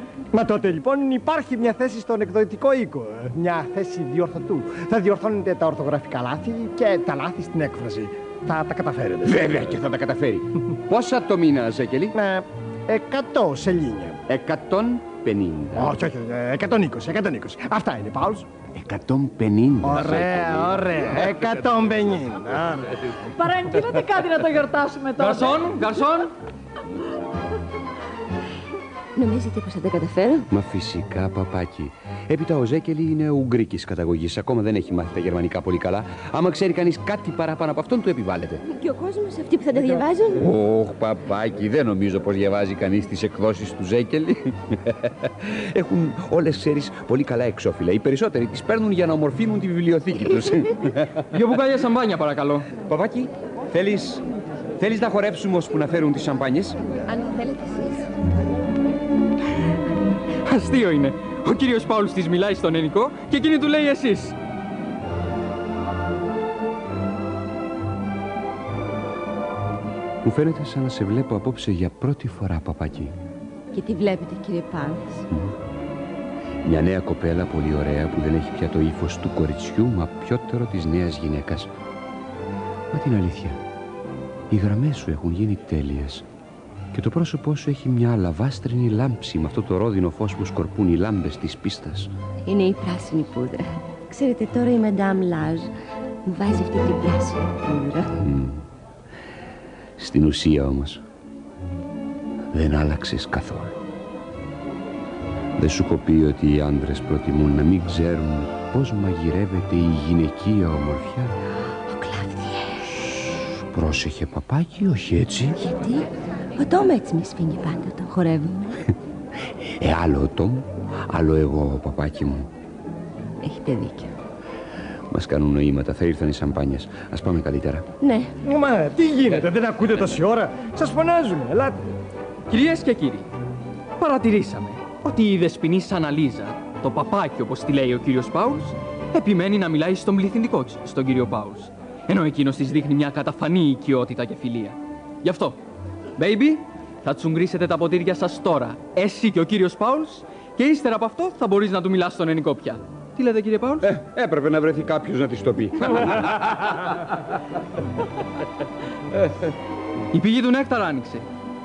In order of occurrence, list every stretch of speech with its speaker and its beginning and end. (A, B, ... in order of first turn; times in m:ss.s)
0:00.3-0:09.4 A
0:09.2-0:12.1 B
0:12.1-0:14.2 A
0:14.3-0:15.9 B
0:15.7-0:18.5 A
0:18.7-0:21.3 B
0:19.8-0:22.9 A
0:23.4-0:25.7 C
0:25.2-0:26.3 D
0:29.2-0:30.5 E
0:30.5-0:38.6 B
0:38.6-0:40.5 E
0:40.4-0:51.2 B
0:51.3-0:52.7 D
0:52.7-0:54.2 B
0:54.8-0:56.8 B
0:57.0-0:58.1 E
1:00.4-1:04.4 D
1:10.2-1:13.1 B
1:13.7-1:15.3 E
1:16.6-1:21.7 B
1:22.9-1:23.6 B
1:24.5-1:26.2 B
1:26.9-1:32.1 B
1:32.4-1:35.7 E
1:36.2-1:38.1 E
1:38.2-1:38.6 B
1:40.0-1:41.0 B
1:42.5-1:43.8 B
1:45.6-1:51.3 B
1:51.7-1:52.9 E
1:53.7-1:55.6 B
1:55.6-1:58.8 E
1:59.8-2:02.5 B
2:03.4-2:04.1 E
2:05.1-2:07.8 B
2:08.0-2:08.3 E
2:08.4-2:11.8 A
2:12.5-2:13.2 D
2:14.0-2:25.6 D
2:26.2-2:33.9 D
2:33.8-2:36.7 B
2:40.1-2:41.2 D